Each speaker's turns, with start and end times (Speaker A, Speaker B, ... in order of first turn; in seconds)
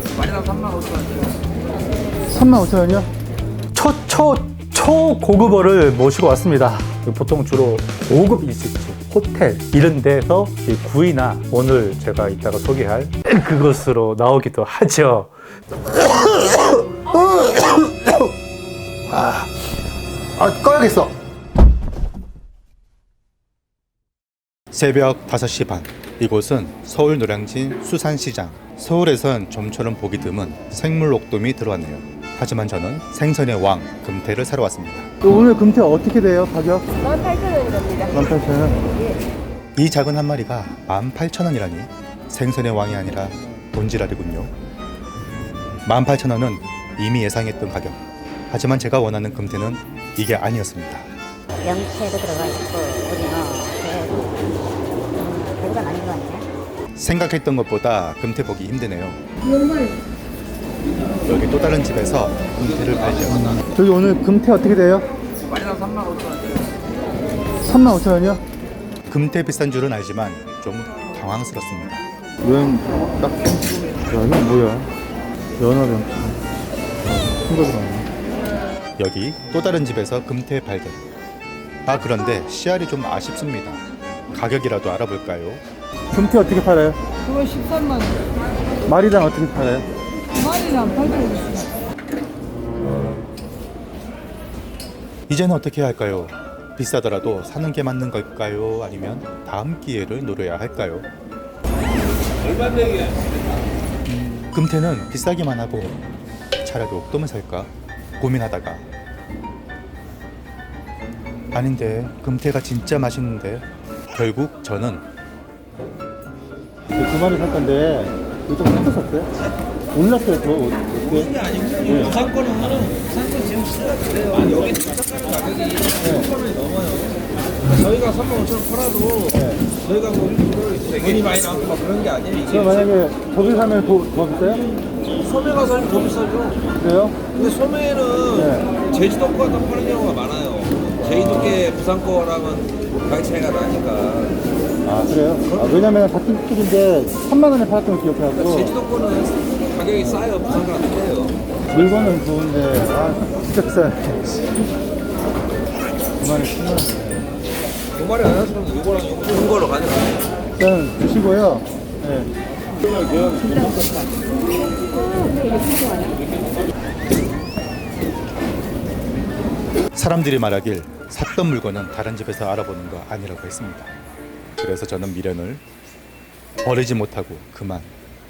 Speaker A: 0.2-0.9, 122.3-129.3, 129.9-132.4, 135.4-136.6, 137.4-138.2, 138.8-140.9, 141.6-144.3, 148.8-149.3, 150.3-151.3, 158.0-160.0
Speaker B: 2.3-3.1, 3.7-15.3, 15.9-18.3, 19.1-19.5, 20.4-21.1, 24.7-36.9, 38.1-38.9, 39.8-44.5, 45.8-51.1, 57.0-59.2, 61.2-65.1, 67.7-68.4, 69.1-74.9, 75.6-76.3, 77.1-78.1, 79.0-81.0, 81.8-87.0, 88.9-89.9, 95.3-101.1, 104.1-106.0, 106.6-108.8, 111.5-115.0, 116.9-119.3, 119.9-122.3, 126.0-126.3, 129.3-129.7, 132.4-134.7, 136.7-137.2, 138.2-138.8, 141.0-141.7, 144.8-148.8, 149.9-150.4, 151.7-154.4, 156.2-157.3, 160.6-162.3, 169.9-173.9, 174.6-175.6, 176.6-177.9
Speaker C: 51.6-54.5, 55.1-56.5
Speaker D: 87.3-88.2, 90.4-91.6